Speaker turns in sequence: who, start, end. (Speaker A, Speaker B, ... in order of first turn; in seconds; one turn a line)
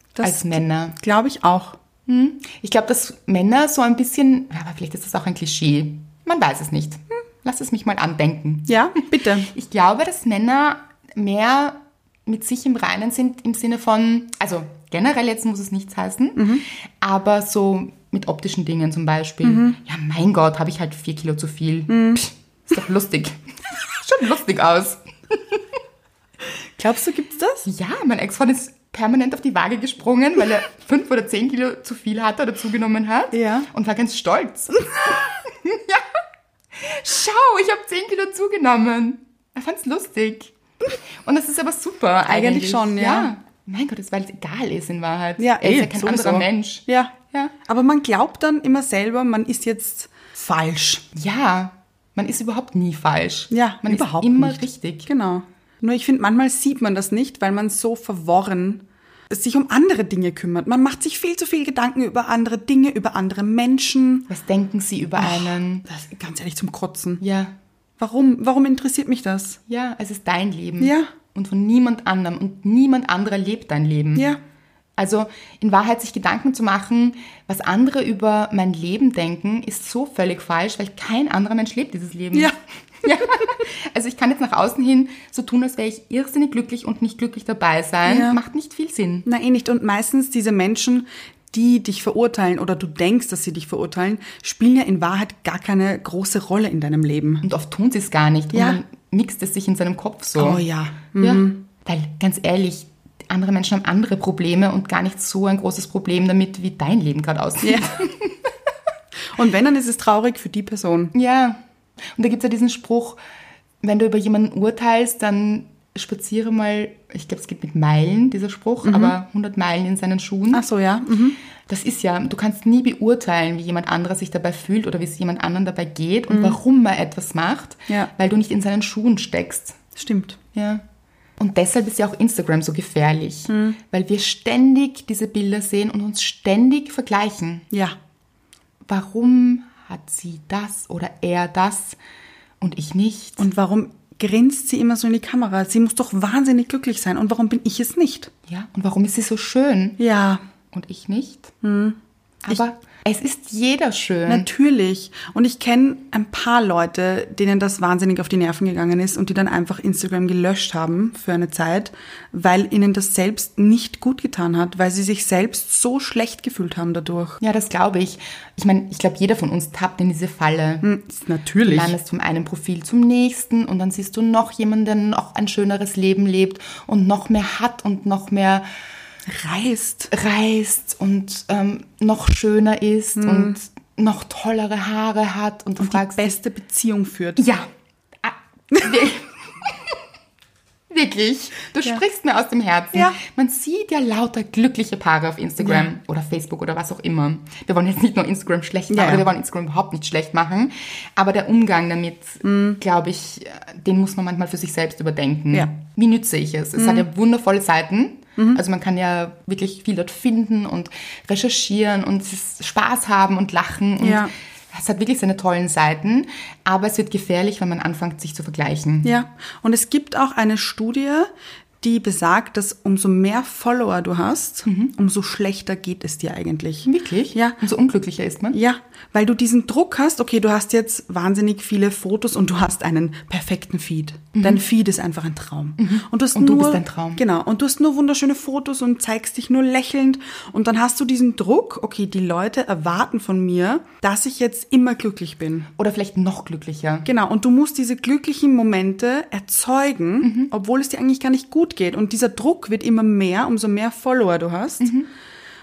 Speaker A: 0.1-1.8
Speaker B: 0.2-1.0
Speaker B: 2.1-25.0
Speaker A: 8.7-9.5
Speaker A: 16.4-16.6
Speaker A: 19.4-19.8
Speaker A: 21.9-22.2
Speaker A: 26.8-27.6
Speaker B: 27.6-36.0
Speaker A: 33.3-33.7
Speaker B: 36.7-40.5
Speaker B: 41.2-47.5
Speaker A: 42.3-43.3
Speaker A: 45.4-47.1
Speaker A: 47.6-51.1
Speaker B: 51.1-55.1
Speaker A: 53.5-64.3
Speaker B: 64.3-65.8
Speaker A: 65.2-67.2
Speaker B: 67.2-67.5
Speaker A: 68.0-69.6
Speaker B: 69.7-74.3
Speaker A: 70.8-71.1
Speaker B: 75.0-89.2
Speaker A: 88.0-88.4
Speaker A: 89.2-97.4
Speaker B: 97.4-100.6
Speaker A: 98.5-98.8
Speaker A: 100.4-101.6
Speaker B: 101.2-108.4
Speaker A: 107.6-108.1
Speaker A: 109.3-111.1
Speaker B: 111.1-111.6
Speaker B: 112.2-113.2
Speaker B: 113.8-120.7
Speaker A: 118.8-119.2
Speaker A: 120.5-121.4
Speaker B: 121.7-129.8
Speaker A: 126.3-126.6
Speaker A: 129.9-130.4
Speaker B: 130.5-130.8
Speaker B: 131.4-137.7
Speaker A: 133.5-133.8
Speaker A: 137.7-137.9
Speaker B: 138.9-142.0
Speaker B: 142.6-143.4
Speaker A: 143.4-148.3
Speaker B: 148.5-150.0
Speaker A: 150.0-150.4
Speaker B: 150.7-151.5
Speaker A: 151.6-152.0
Speaker B: 152.4-154.5
Speaker A: 154.2-167.4
Speaker B: 167.4-170.8
Speaker A: 170.8-171.9
Speaker B: 171.6-178.7
Speaker A: 179.3-180.1
Speaker B: 180.1-186.3
Speaker A: 183.2-183.6
Speaker A: 185.8-187.4
Speaker B: 187.4-187.7
Speaker B: 188.2-189.8
Speaker B: 190.9-219.1
Speaker A: 195.6-195.9
Speaker A: 198.9-199.2
Speaker A: 202.4-202.8
Speaker A: 206.8-207.1
Speaker A: 214.0-214.3
Speaker A: 219.0-221.3
Speaker A: 221.8-227.6
Speaker B: 224.7-224.9
Speaker B: 226.8-228.6
Speaker A: 228.5-245.7
Speaker B: 234.3-234.6
Speaker B: 235.8-237.2
Speaker B: 245.8-247.1
Speaker A: 247.0-254.9
Speaker B: 250.2-250.5
Speaker B: 254.8-255.1